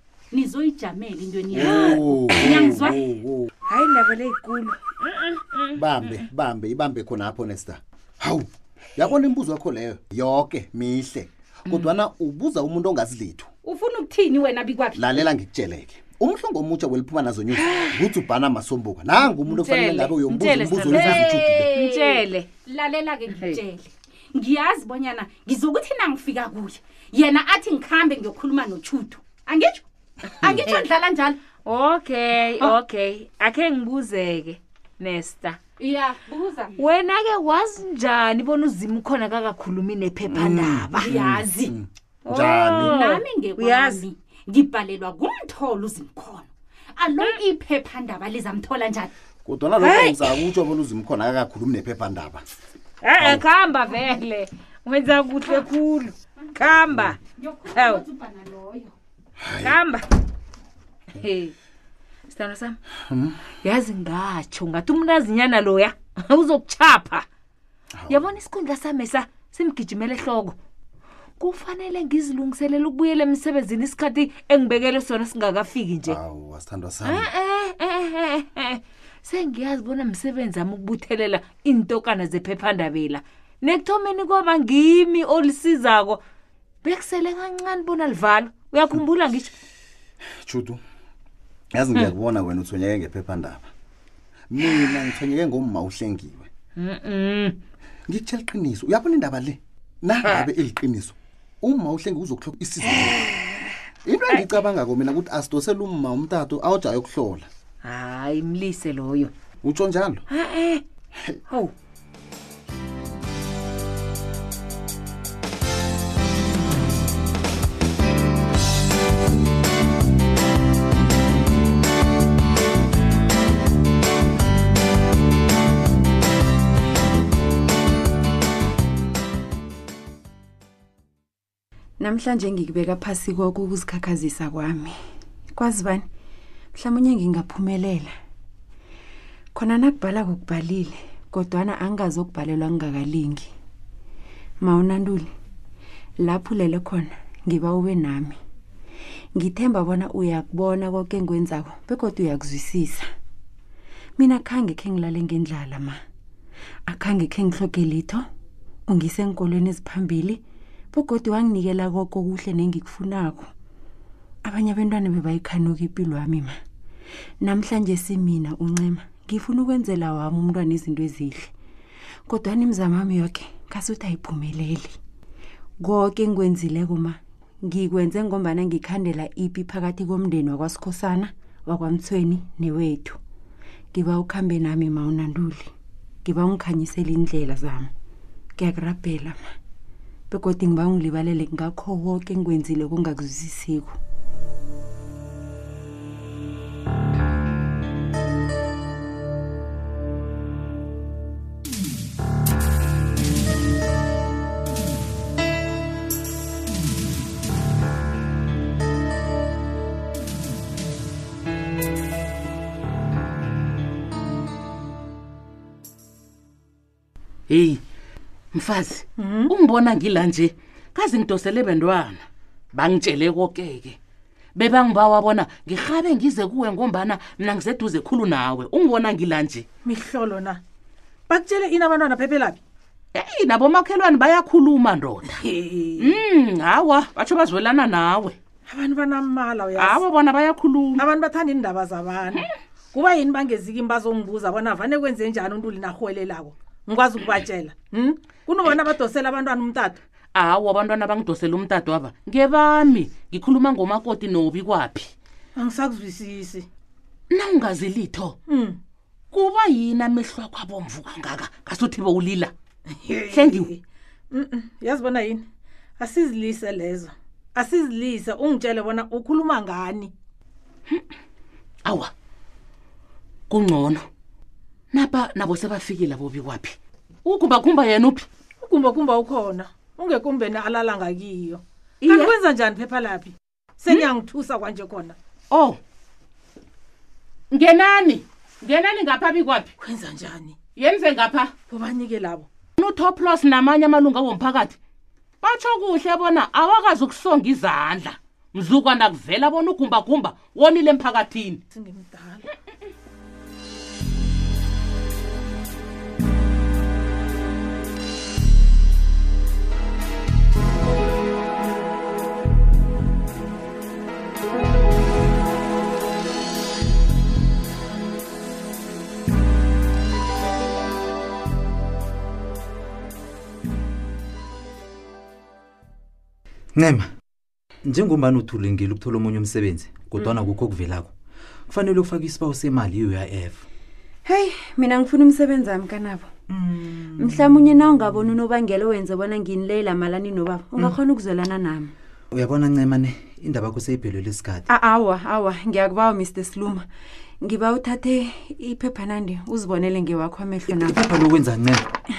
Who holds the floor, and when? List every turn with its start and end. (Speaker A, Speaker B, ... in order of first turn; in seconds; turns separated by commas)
Speaker A: 0.3-1.7, Speaker B: 1.5-3.5, Speaker C: 1.6-2.6, Speaker A: 2.5-3.0, Speaker C: 3.7-6.2, Speaker B: 5.8-13.5, Speaker A: 13.7-15.1, Speaker B: 14.9-21.7, Speaker C: 17.5-18.1, Speaker C: 19.4-22.5, Speaker A: 20.9-31.4, Speaker C: 23.3-23.6, Speaker B: 30.4-30.8, Speaker C: 31.6-35.6, Speaker A: 35.8-36.7, Speaker C: 36.8-41.2, Speaker B: 40.3-43.0, Speaker A: 41.0-41.7, Speaker C: 42.2-44.0, Speaker A: 42.8-49.1, Speaker B: 49.5-52.4, Speaker C: 49.8-50.5, Speaker C: 53.0-58.0, Speaker B: 53.2-53.4, Speaker A: 57.3-58.9, Speaker B: 59.4-59.8, Speaker C: 59.6-60.1, Speaker C: 61.1-61.5, Speaker C: 62.3-62.8, Speaker B: 63.1-63.4, Speaker C: 63.6-67.3, Speaker B: 68.0-68.3, Speaker C: 68.1-70.6, Speaker C: 71.4-76.2, Speaker B: 76.0-77.3, Speaker C: 77.0-86.2, Speaker C: 86.8-89.5, Speaker B: 90.4-90.8, Speaker B: 91.7-93.7, Speaker B: 94.5-96.5, Speaker C: 96.8-97.6, Speaker B: 98.1-103.3, Speaker C: 102.9-103.7, Speaker B: 104.0-107.5, Speaker C: 104.3-104.6, Speaker C: 107.8-109.3, Speaker B: 109.6-110.2, Speaker C: 110.3-110.8, Speaker D: 132.0-135.0, Speaker D: 135.5-136.1, Speaker D: 136.7-138.1, Speaker D: 139.6-143.5, Speaker D: 144.6-145.3, Speaker D: 146.2-148.4, Speaker D: 149.4-153.1, Speaker D: 154.2-156.0, Speaker D: 156.9-158.3, Speaker D: 158.9-160.4, Speaker D: 160.9-163.5, Speaker D: 164.4-166.6, Speaker D: 167.4-171.5, Speaker D: 172.3-175.0, Speaker D: 175.8-183.2, Speaker D: 183.9-185.7, Speaker D: 186.2-187.9, Speaker D: 188.6-189.6, Speaker D: 190.3-194.0, Speaker E: 217.5-217.8, Speaker E: 218.5-224.0, Speaker F: 219.2-219.5, Speaker E: 224.6-229.7, Speaker F: 229.8-230.6, Speaker F: 231.3-232.6, Speaker E: 233.2-235.3, Speaker F: 235.4-235.9, Speaker E: 236.0-238.4, Speaker F: 238.7-240.0, Speaker E: 239.8-241.0, Speaker F: 241.0-250.0, Speaker E: 250.3-255.1, Speaker F: 255.6-256.7, Speaker E: 257.3-258.4, Speaker F: 258.5-258.8, Speaker E: 259.3-262.5, Speaker F: 263.0-263.8, Speaker E: 263.3-263.7, Speaker F: 264.3-265.4, Speaker F: 266.0-270.1, Speaker E: 271.9-272.1, Speaker E: 273.5-274.1, Speaker E: 274.9-278.3, Speaker F: 278.6-285.2, Speaker E: 285.5-285.8, Speaker E: 287.5-289.7, Speaker F: 289.8-290.6, Speaker E: 290.8-291.5, Speaker F: 291.7-292.5, Speaker E: 292.8-294.8, Speaker E: 295.4-301.6, Speaker F: 301.7-302.5, Speaker G: 326.8-327.1, Speaker G: 327.8-331.1, Speaker G: 331.7-333.6, Speaker D: 334.3-336.3, Speaker G: 336.5-337.5, Speaker D: 337.1-341.9, Speaker G: 342.3-344.7, Speaker D: 344.7-346.9, Speaker D: 347.4-351.0, Speaker G: 350.7-351.8